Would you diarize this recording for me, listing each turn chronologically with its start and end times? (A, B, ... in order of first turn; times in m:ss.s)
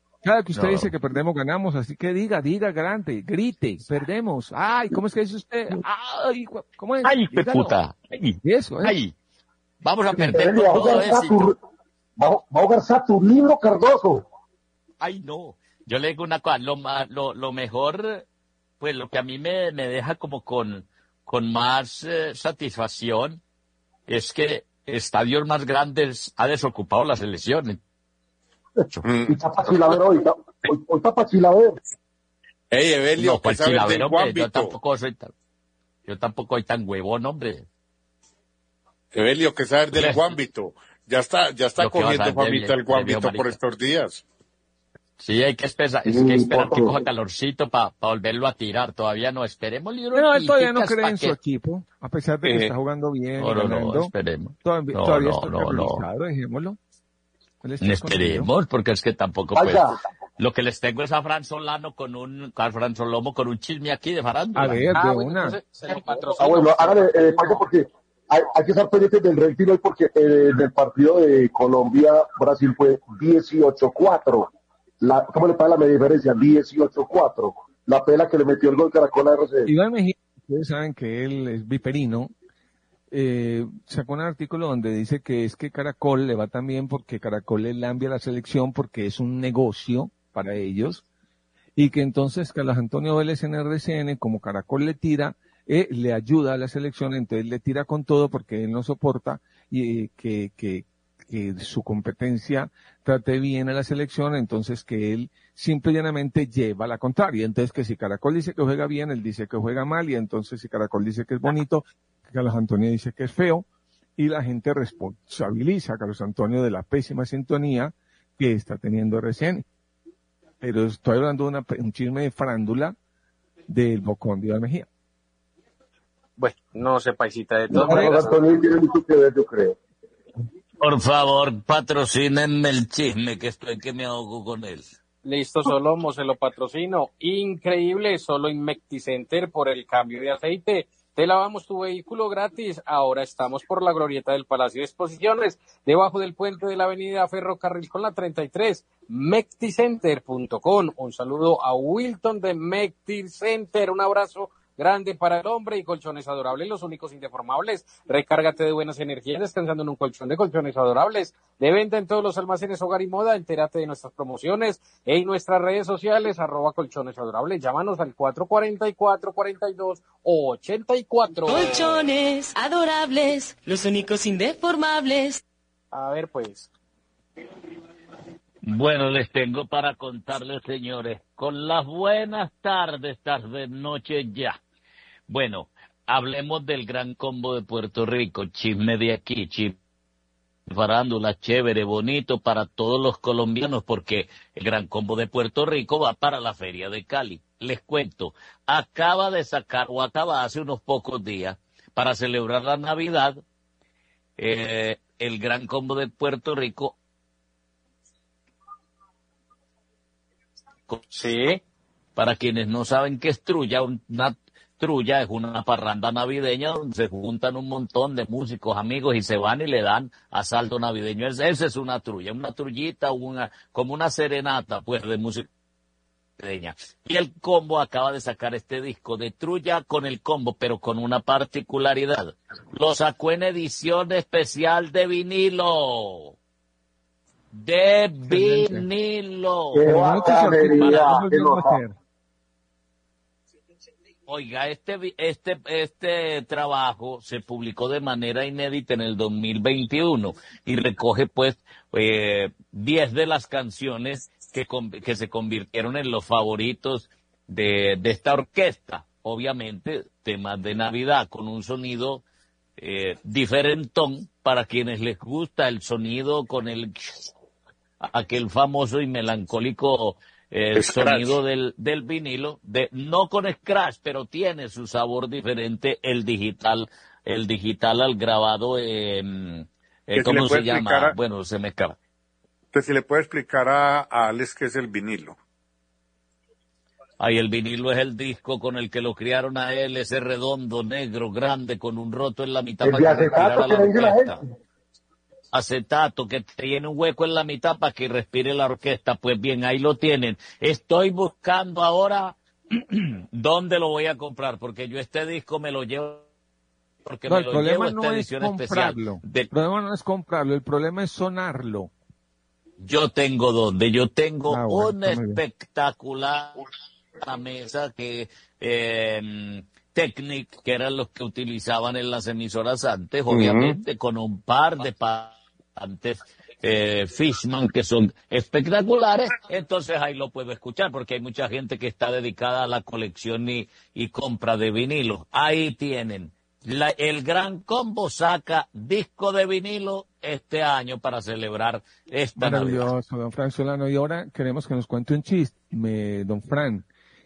0:00.2-0:07.8 A
0:00.6-0:00.9 B
0:07.0-0:09.1 B
0:08.4-0:09.0 A
0:09.8-0:11.4 B
0:10.2-0:11.6 C
0:12.2-0:14.3 C
0:15.0-0:18.2 B
0:18.8-0:23.4 B
0:24.1-0:27.8 B
0:29.0-0:29.4 D
0:29.3-0:31.8 C
0:32.7-0:34.7 D
0:33.2-0:35.3 B
0:36.1-0:37.7 B
0:39.1-0:44.2 D
0:39.9-0:40.2 B
0:41.8-0:43.6 B
0:45.2-0:51.4 B
0:46.1-0:47.0 C
0:50.1-0:54.1 A
0:53.4-0:56.0 B
0:54.6-0:56.8 A
0:57.6-0:58.5 A
0:57.8-1:04.9 B
0:59.6-1:00.0 C
1:04.6-1:05.6 A
1:04.9-1:07.6 E
1:06.4-1:14.5 C
1:15.0-1:19.7 C
1:19.7-1:22.3 A
1:23.1-1:31.0 A
1:31.8-1:53.7 A
1:54.2-1:59.6 A
2:00.6-2:03.0 A
2:03.7-2:04.9 A
2:06.4-2:08.4 E
2:07.7-2:09.8 C
2:07.7-2:08.2 A
2:10.8-2:14.9 B
2:15.2-2:52.1 E
2:51.5-2:55.4 F
2:55.9-2:56.7 E
2:58.6-3:04.6 B
3:05.3-3:09.8 B
3:10.7-3:23.4 B
3:24.4-3:27.0 B
3:31.1-3:31.6 E
3:32.2-3:45.5 B
3:46.4-3:56.4 B
3:57.5-4:01.1 B
3:58.3-3:58.9 A
3:59.7-4:01.8 C
3:59.8-4:02.0 A
4:04.3-4:22.2 B
4:22.8-4:27.2 B
4:28.0-4:42.0 B
4:30.8-4:31.4 D
4:40.2-4:41.2 D
4:42.7-4:45.4 D
4:47.2-4:54.4 B
4:52.8-4:54.4 C
4:55.5-5:06.3 B
5:07.0-5:09.5 B
5:07.3-5:11.9 A
5:12.8-5:16.6 B
5:14.5-5:15.4 A
5:17.2-5:42.9 B
5:23.3-5:23.8 D
5:42.4-5:46.8 A